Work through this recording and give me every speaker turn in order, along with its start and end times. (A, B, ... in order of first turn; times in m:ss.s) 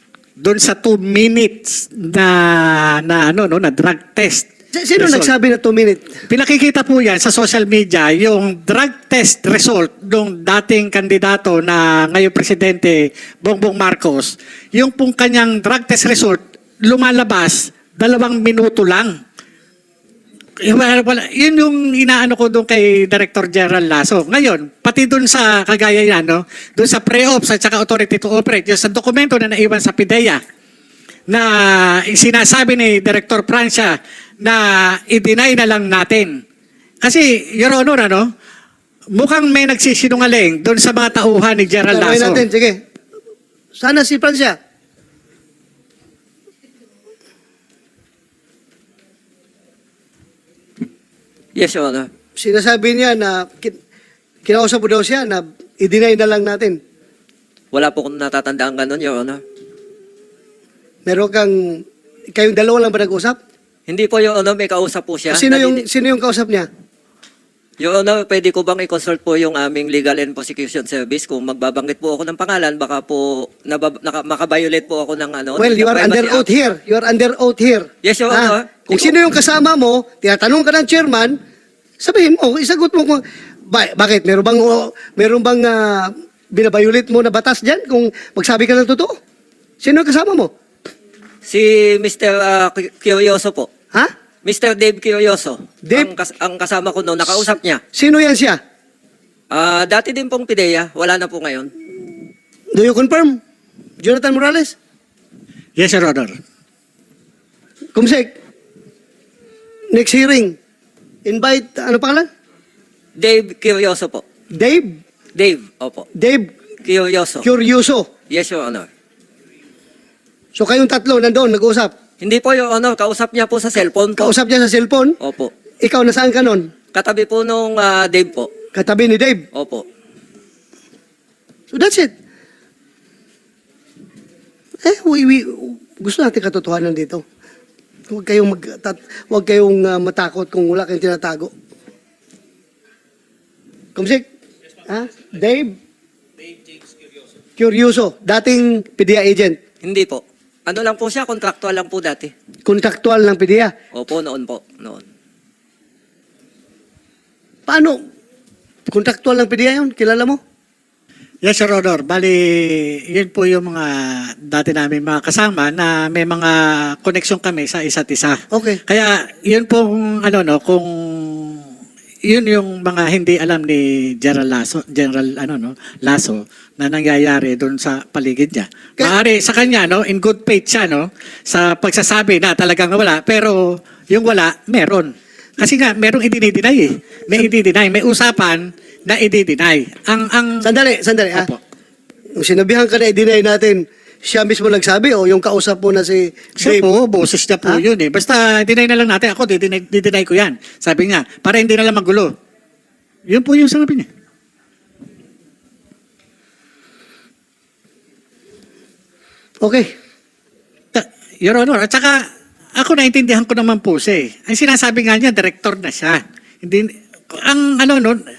0:00.4-0:04.5 A
0:04.7-0:06.1 B
0:05.0-0:05.3 A
0:06.3-0:19.1 A
0:20.6-0:30.4 A
0:31.3-0:36.4 A
0:37.0-0:38.3 A
0:39.1-0:42.4 A
0:41.9-0:42.8 B
0:43.8-0:44.6 B
0:51.6-0:52.1 C
0:52.4-0:53.8 B
0:54.4-0:56.8 B
0:57.7-0:59.4 C
1:01.0-1:03.4 B
1:03.9-1:05.8 C
1:05.3-1:06.7 B
1:07.8-1:16.4 C
1:15.6-1:21.4 B
1:18.0-1:19.1 C
1:22.0-1:29.2 B
1:29.8-1:30.5 B
1:31.4-1:33.7 C
1:34.4-1:37.8 C
1:35.8-1:36.1 B
1:37.9-1:38.6 B
1:39.5-1:41.7 C
1:42.7-1:43.4 B
1:44.0-1:44.7 B
1:45.8-1:46.3 A
1:47.9-1:48.3 B
1:49.9-1:50.6 B
1:51.2-1:52.3 B
1:53.2-1:54.2 C
1:54.5-1:55.0 B
1:55.4-1:56.0 C
1:56.1-1:56.5 B
1:56.8-1:57.5 C
1:57.4-1:58.1 B
1:58.3-1:58.9 C
2:00.5-2:01.9 B
2:02.2-2:04.3 C
2:04.2-2:05.2 B
2:05.2-2:05.5 C
2:05.8-2:06.7 B
2:06.9-2:08.5 C
2:08.7-2:09.4 B
2:09.5-2:09.8 C
2:11.7-2:12.1 B
2:14.8-2:17.2 B
2:18.1-2:21.5 B
2:23.9-2:24.2 B
2:24.8-2:25.8 B
2:27.6-2:29.6 B
2:29.8-2:32.3 C
2:32.6-2:33.7 B
2:33.9-2:35.0 C
2:37.7-2:38.0 B
2:38.9-2:40.4 B
2:41.4-2:51.6 A
2:48.5-2:48.8 B
2:52.2-3:10.7 A
3:10.6-3:11.5 B
3:12.4-3:16.8 B
3:16.6-3:22.3 A
3:23.3-3:24.1 A
3:29.6-3:29.9 B
3:30.9-3:32.2 A
3:32.8-3:38.2 A